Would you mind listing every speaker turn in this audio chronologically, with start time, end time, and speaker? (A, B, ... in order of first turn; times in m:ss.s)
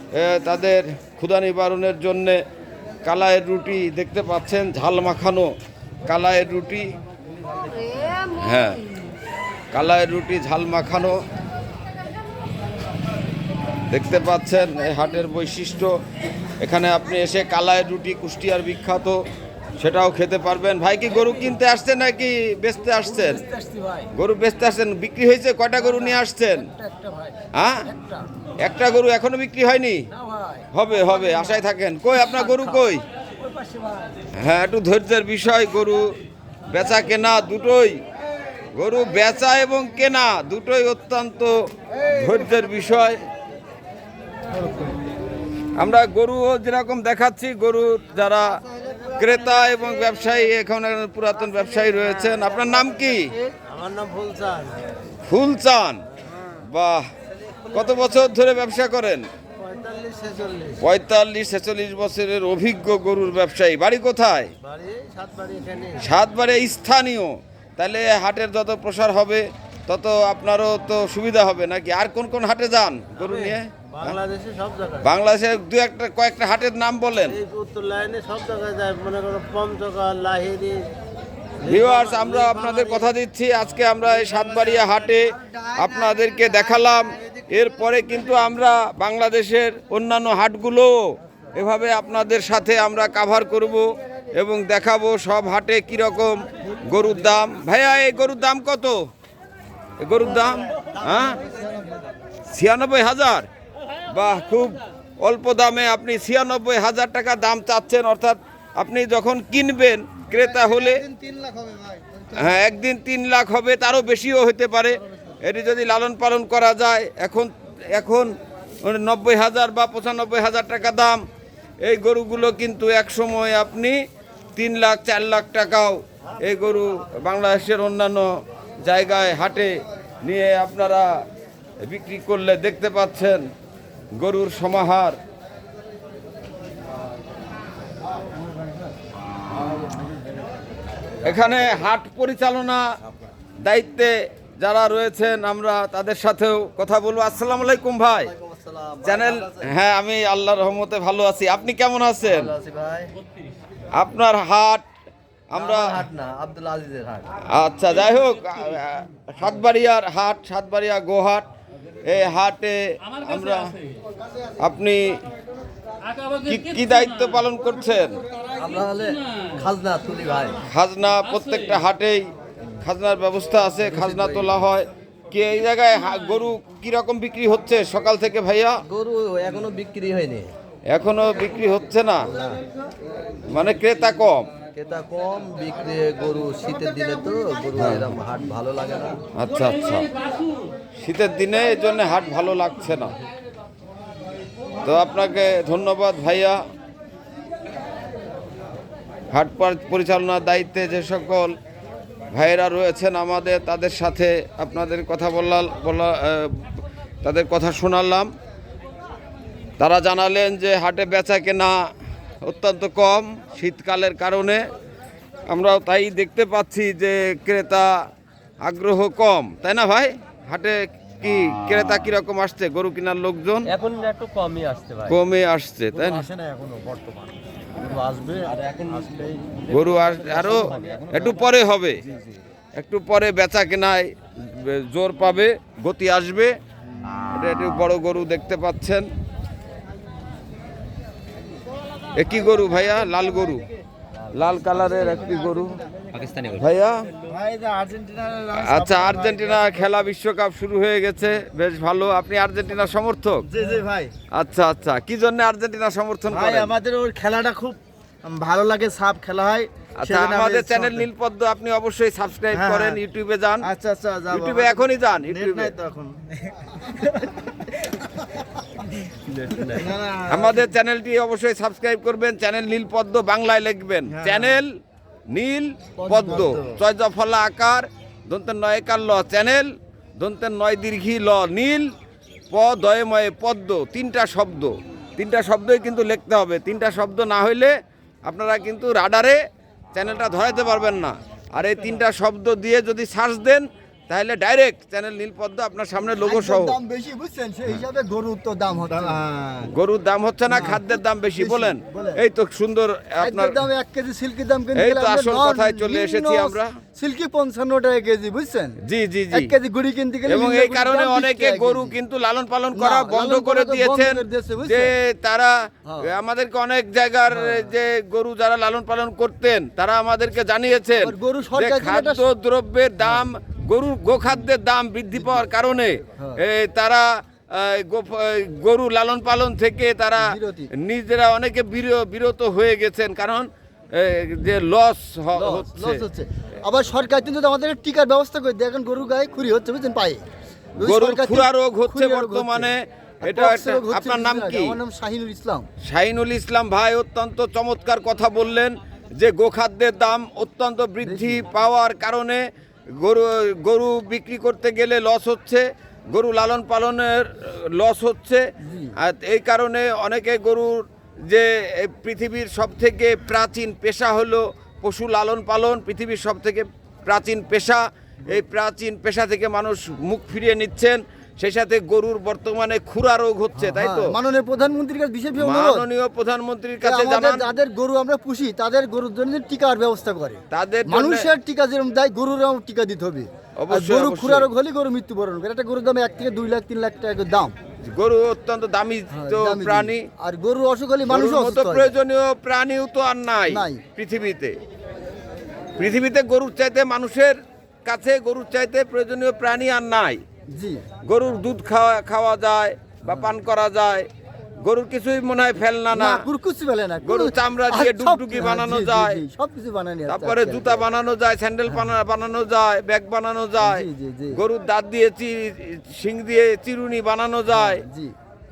0:00.1-0:02.4 A
0:03.0-0:05.5 A
0:06.1-0:06.9 A
0:08.3-0:08.8 A
0:09.7-0:11.2 A
0:13.9-0:15.9 A
0:16.6-0:19.2 A
0:19.8-0:23.4 A
0:23.1-0:24.1 B
0:24.1-0:26.7 A
0:26.7-0:27.3 B
0:27.6-0:27.9 A
0:27.9-0:28.2 B
0:28.6-0:30.0 A
0:30.2-0:30.7 B
0:30.7-0:33.0 A
0:32.3-0:32.7 B
0:33.4-0:34.0 B
0:34.4-0:36.1 A
0:36.7-0:38.0 A
0:38.8-0:43.2 A
0:44.6-0:44.9 B
0:45.8-0:48.6 A
0:49.2-0:53.3 A
0:52.4-0:54.8 B
0:55.2-0:56.0 A
0:56.6-0:57.1 A
0:57.6-0:58.1 B
0:57.7-0:59.3 A
0:59.6-1:00.8 B
1:00.8-1:04.5 A
1:04.6-1:06.0 B
1:06.0-1:14.2 A
1:13.2-1:15.1 B
1:15.0-1:17.4 A
1:17.3-1:20.9 B
1:21.6-1:23.1 B
1:21.7-1:39.0 A
1:40.0-1:41.4 A
1:42.5-1:43.5 A
1:44.1-1:51.1 A
1:51.2-1:51.9 B
1:52.3-2:01.2 A
2:01.8-2:04.0 A
2:04.6-2:08.3 A
2:08.8-2:11.1 A
2:11.8-2:13.5 A
2:14.2-2:15.2 A
2:21.2-2:22.9 A
2:23.6-2:28.3 A
2:28.3-2:29.6 B
2:29.0-2:32.5 A
2:32.2-2:33.1 B
2:34.0-2:34.9 A
2:35.5-2:36.0 A
2:35.6-2:37.3 B
2:37.5-2:41.5 A
2:42.1-2:43.7 A
2:44.6-2:45.2 A
2:46.4-2:48.2 A
2:48.6-2:50.6 B
2:50.7-2:52.3 A
2:52.8-2:58.8 A
2:54.0-2:54.4 B
2:58.9-3:00.5 B
3:00.9-3:02.3 A
3:03.5-3:04.5 A
3:04.8-3:09.2 B
3:07.8-3:08.1 A
3:09.4-3:10.1 A
3:11.0-3:13.2 A
3:14.8-3:16.6 A
3:19.3-3:21.5 A
3:22.3-3:26.7 A
3:27.2-3:28.3 A
3:29.8-3:31.8 A
3:32.4-3:34.6 A
3:35.5-3:38.0 A
3:38.6-3:43.7 A
3:43.7-3:45.2 B
3:45.1-3:46.2 A
3:45.9-3:51.4 B
3:49.7-3:52.0 A
3:52.8-3:56.5 A
3:57.3-3:59.1 A
4:02.2-4:03.6 A
4:04.3-4:05.8 A
4:06.1-4:06.6 B
4:06.6-4:07.1 A
4:07.2-4:09.9 B
4:08.5-4:13.5 A
4:13.5-4:14.1 B
4:14.3-4:16.7 A
4:16.3-4:21.0 B
4:20.0-4:23.7 A
4:22.5-4:23.0 B
4:23.6-4:26.2 B
4:24.3-4:25.7 A
4:26.8-4:27.3 B
4:29.1-4:30.6 B
4:30.3-4:34.7 A
4:34.1-4:34.6 B
4:35.3-4:41.9 A
4:36.0-4:36.8 B
4:42.5-4:47.7 A
4:48.3-4:49.4 A
4:49.9-4:56.8 A
4:56.2-4:59.6 C
4:59.6-5:03.6 A
5:00.5-5:02.2 C
5:03.2-5:08.8 C
5:04.8-5:06.8 A
5:08.8-5:09.5 A
5:09.3-5:12.0 C
5:10.3-5:36.0 A
5:12.7-5:14.9 C
5:15.9-5:16.1 C
5:17.3-5:17.7 C
5:21.0-5:22.2 C
5:23.0-5:23.3 C
5:30.2-5:30.7 C
5:35.4-5:40.2 C
5:40.8-5:42.7 C
5:40.8-5:44.8 A
5:43.2-5:45.7 C
5:45.8-5:52.4 A
5:51.0-5:51.4 C
5:53.0-5:58.5 A
5:58.6-5:58.9 C
5:59.0-6:14.1 A
6:13.6-6:15.9 C
6:15.4-6:17.5 A
6:16.8-6:27.6 C
6:20.5-6:21.3 A
6:23.6-6:24.5 A
6:27.8-6:30.1 A
6:29.1-6:31.9 C
6:31.1-6:34.6 A
6:33.5-6:33.8 C
6:35.8-6:40.2 A
6:40.5-6:40.8 C
6:41.1-6:44.1 A
6:44.6-6:46.3 A
6:45.9-6:50.8 C
6:47.0-6:49.2 A
6:50.1-6:57.8 A
6:53.6-6:54.4 C
6:57.6-6:58.1 C